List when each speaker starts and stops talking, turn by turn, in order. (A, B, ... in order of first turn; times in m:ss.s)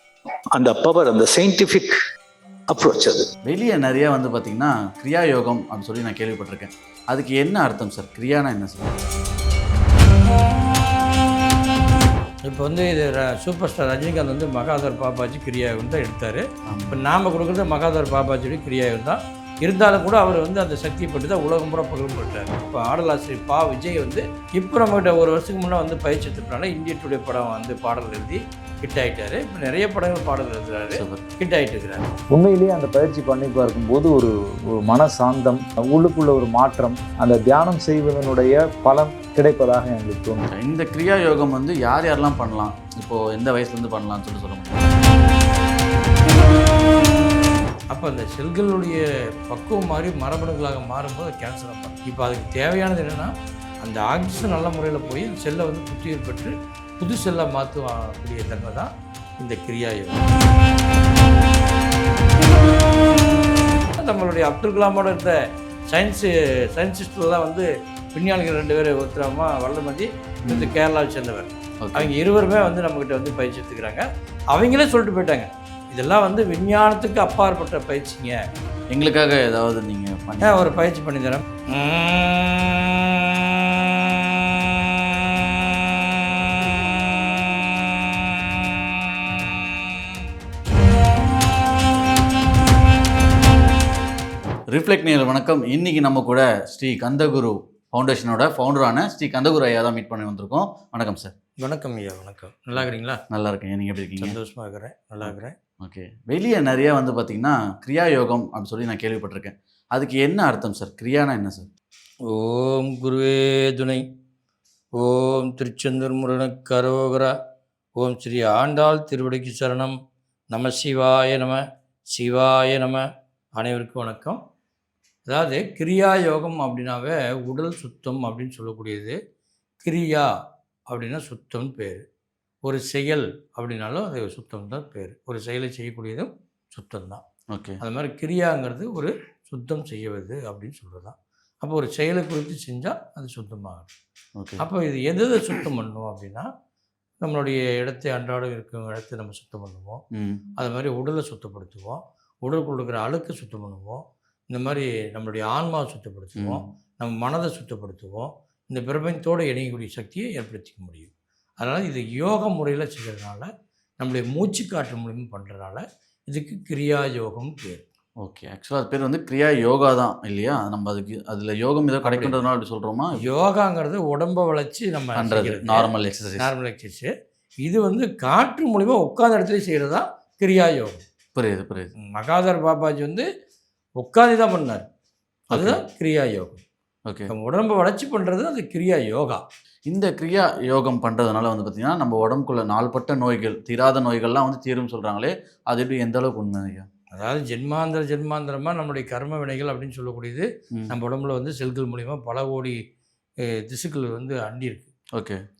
0:00.5-0:01.9 A
0:02.7-0:03.3 A
0:03.5-0:09.0 B
0:12.4-0:32.1 C
0:16.7-0:17.0 B
0:30.9-0:31.2 B
0:32.3-0:40.5 D
0:40.5-0:44.8 B
0:47.9-0:53.3 C
0:53.8-1:00.3 C
1:03.9-1:05.4 C
1:05.9-1:18.4 C
1:10.4-1:10.7 B
1:11.8-1:12.1 B
1:18.9-1:20.8 B
1:20.4-1:30.2 C
1:34.7-1:41.3 B
1:41.6-1:43.2 C
1:42.7-1:44.4 B
1:44.2-1:45.6 C
1:45.2-1:51.7 B
1:52.3-1:54.0 C
1:55.0-1:57.3 C
1:58.0-1:59.9 C
2:00.5-2:03.0 C
2:03.6-2:04.4 C
2:05.3-2:09.2 C
2:09.8-2:10.3 C
2:10.9-2:12.0 C
2:12.6-2:17.2 C
2:17.5-2:17.8 B
2:17.8-2:23.9 C
2:24.4-2:24.6 B
2:24.6-2:26.5 C
2:27.2-2:30.0 C
2:30.2-2:30.4 B
2:30.6-2:43.5 C
2:36.4-2:36.7 B
2:44.0-2:47.8 C
2:48.2-2:53.2 B
2:52.0-2:52.4 C
2:53.2-2:57.1 C
2:55.2-2:56.5 B
2:57.6-3:01.0 C
3:01.4-3:01.9 B
3:02.1-3:03.3 C
3:04.0-3:04.8 C
3:05.5-3:06.6 C
3:05.5-3:05.8 B
3:07.3-3:09.4 C
3:09.9-3:16.9 B
3:17.1-3:22.8 C
3:23.4-3:24.9 C